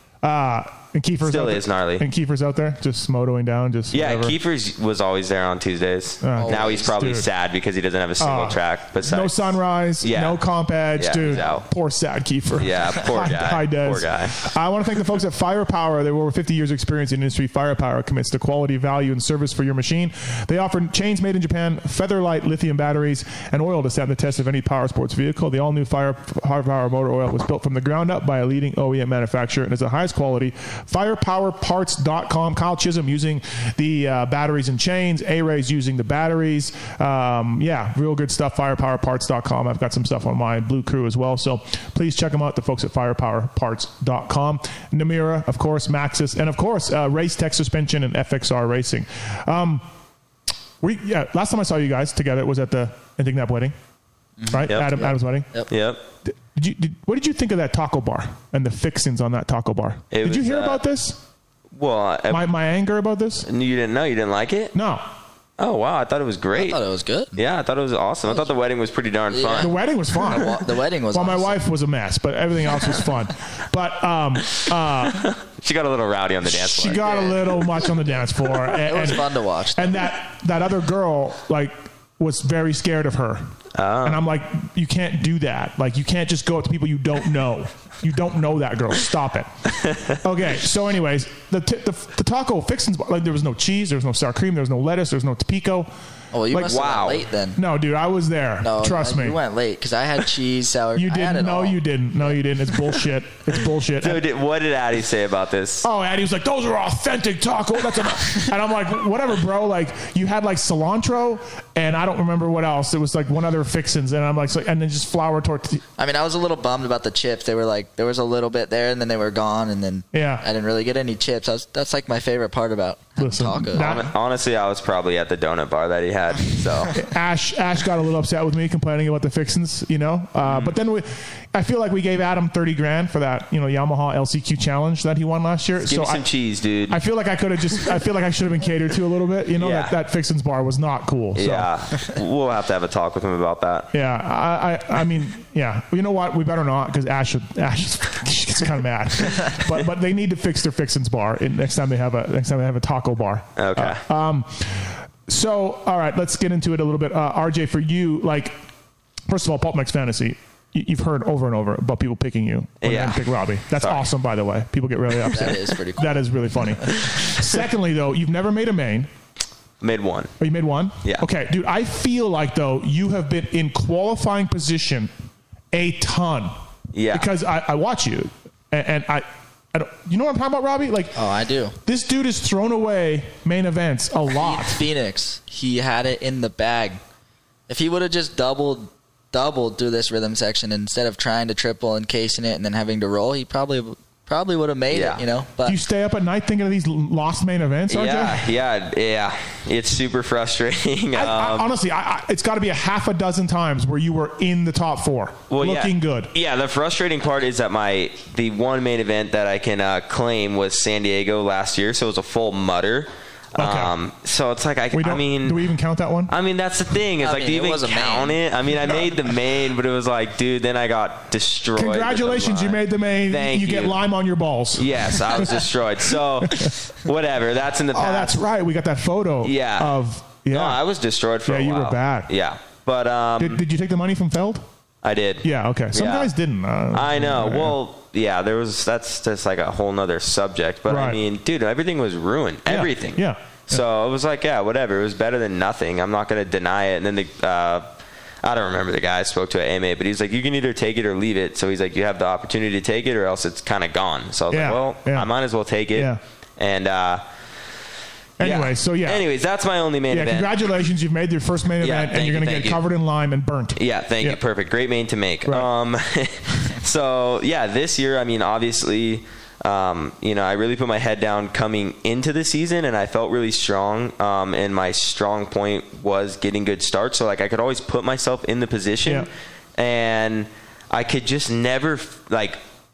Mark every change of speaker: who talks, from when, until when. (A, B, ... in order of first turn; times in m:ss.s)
0:00.2-0:04.4 A
0:01.2-0:02.0 B
0:03.9-0:10.4 B
0:06.2-0:07.3 A
0:06.4-0:06.9 C
0:08.2-0:49.8 A
0:11.0-0:11.7 B
0:12.6-0:14.4 B
0:50.8-0:53.7 A
0:54.4-0:55.7 C
0:54.5-0:55.5 A
0:54.7-0:55.0 B
0:55.7-0:56.0 B
0:56.3-1:01.2 A
1:00.1-1:00.8 B
1:01.7-1:02.4 B
1:02.3-1:03.5 A
1:03.4-1:04.8 B
1:04.7-1:05.0 A
1:05.6-1:06.8 B
1:06.6-1:07.4 C
1:07.4-1:09.7 B
1:09.3-1:11.6 C
1:09.6-1:15.3 A
1:15.1-1:17.2 B
1:16.4-1:23.5 A
1:16.9-1:17.6 C
1:18.7-1:20.1 C
1:23.8-1:24.2 B
1:24.0-1:35.9 A
1:29.8-1:30.1 B
1:36.3-1:37.6 C
1:36.6-1:37.2 B
1:37.6-1:39.4 A
1:38.6-1:41.8 C
1:41.0-1:44.2 A
1:44.0-1:45.9 B
1:45.8-1:55.8 A
1:56.0-2:04.0 C
2:00.1-2:00.4 A
2:03.2-2:04.1 A
2:03.7-2:07.0 B
2:06.9-2:16.3 A
2:10.4-2:10.8 B
2:15.8-2:17.0 B
2:16.9-2:21.7 A
2:17.7-2:18.0 B
2:19.6-2:20.0 B
2:21.4-2:23.9 B
2:23.9-2:38.6 A
2:33.6-2:34.0 B
2:39.3-2:49.1 A
2:42.8-2:44.1 B
2:45.3-2:46.2 C
2:49.8-2:50.3 B
2:50.4-2:55.1 A
2:55.7-2:56.5 A
2:56.9-2:57.3 B
2:57.1-3:01.2 A
3:01.2-3:01.8 C
3:01.8-3:04.8 A
3:04.4-3:07.0 C
3:07.7-3:15.8 C
3:14.9-3:15.2 B
3:15.6-3:18.5 A
3:17.9-3:21.7 B
3:21.2-3:26.3 A
3:25.5-3:35.7 B
3:33.6-3:33.9 A
3:34.9-3:36.3 A
3:36.3-3:44.0 B
3:37.2-3:38.4 C
3:41.8-3:46.8 A
3:44.8-3:48.4 B
3:47.9-3:50.8 A
3:49.4-3:50.0 B
3:50.5-3:53.6 B
3:51.5-3:52.3 A
3:53.4-3:54.6 A
3:55.0-3:56.3 B
3:55.4-3:57.8 A
3:56.9-4:07.9 B
4:00.9-4:01.2 A
4:02.7-4:03.8 A
4:08.4-4:17.2 B
4:14.5-4:15.3 A
4:15.9-4:16.2 A
4:18.4-4:19.2 A
4:18.4-4:20.7 B
4:20.1-4:24.4 A
4:21.8-4:22.8 B
4:23.8-4:42.6 B